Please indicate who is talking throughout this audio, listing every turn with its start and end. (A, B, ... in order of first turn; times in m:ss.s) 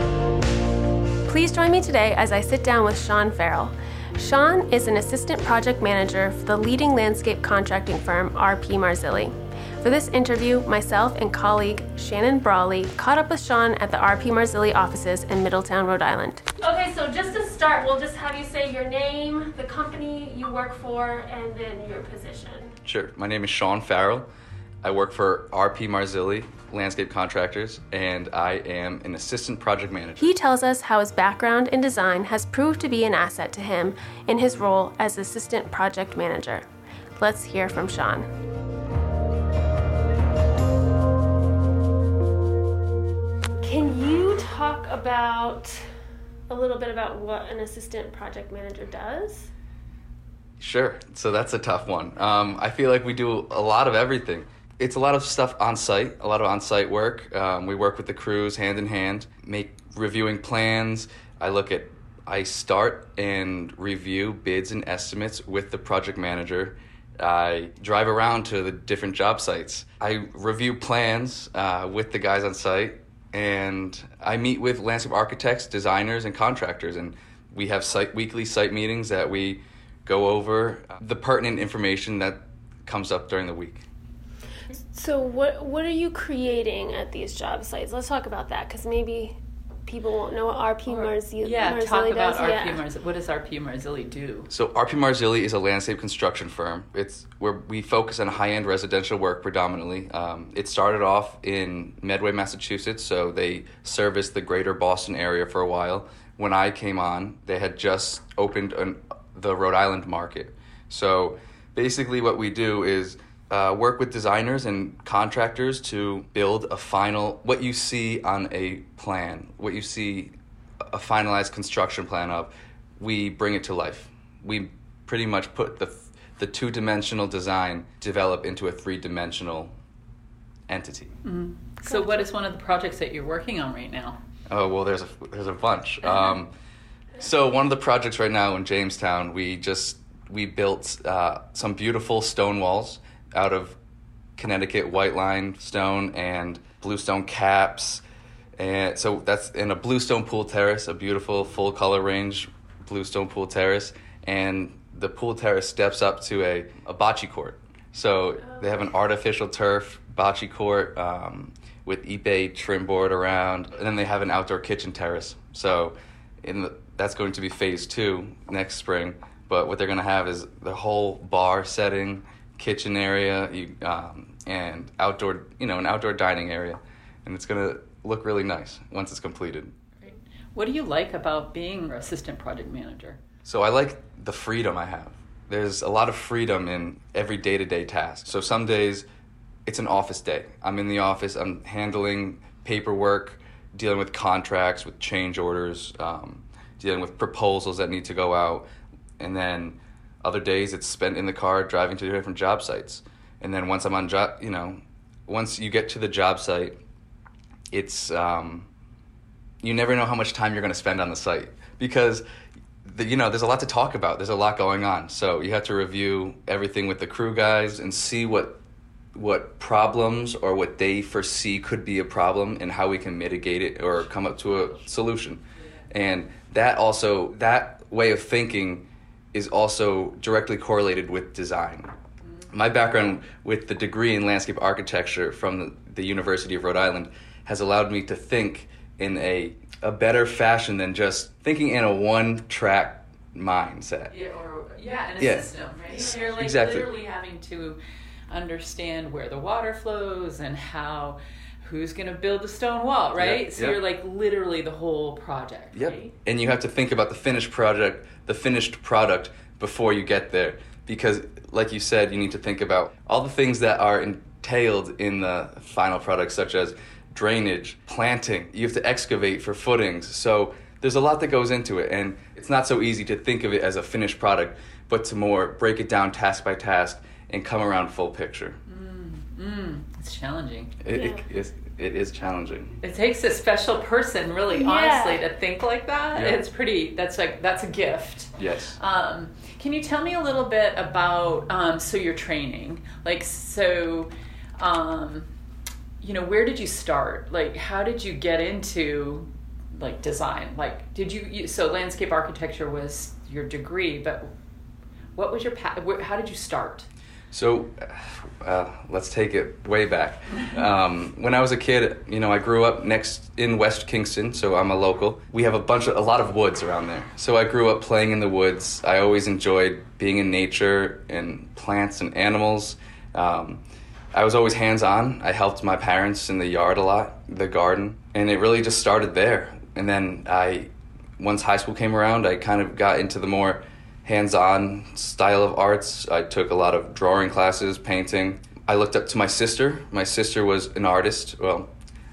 0:01.3-0:22.8 A
0:22.8-0:24.3 B
0:24.8-0:30.3 B
0:30.2-0:36.7 A
0:37.2-0:38.3 A
0:43.6-0:45.8 A
0:46.5-0:49.5 A
0:50.6-1:23.8 B
1:24.9-1:32.8 A
1:30.9-1:34.5 C
1:34.5-2:00.3 B
2:00.9-2:09.7 B
2:10.7-2:11.2 B
2:11.2-2:14.2 C
2:14.5-2:16.5 B
2:17.2-2:23.8 B
2:24.4-2:28.0 B
2:28.6-2:59.8 B
3:00.0-3:03.2 C
3:03.4-3:09.1 B
3:09.7-3:18.7 B
3:19.2-3:26.8 B
3:27.7-3:28.7 B
3:29.6-3:32.2 B
3:32.8-3:38.6 B
3:39.1-3:51.9 B
3:52.5-4:04.1 B
4:04.1-4:07.8 C
4:05.2-4:06.9 B
4:08.3-4:16.1 C
4:13.2-4:13.8 B
4:15.7-4:38.6 B
4:38.7-4:40.8 C
4:40.8-4:42.8 B
4:40.9-4:41.2 A
4:42.8-4:55.3 C
4:44.5-4:45.2 A
4:46.1-4:46.4 B
4:48.4-4:48.8 B
4:56.0-5:04.3 C
5:05.2-5:06.9 C
5:07.3-5:23.6 B
5:24.1-5:41.7 B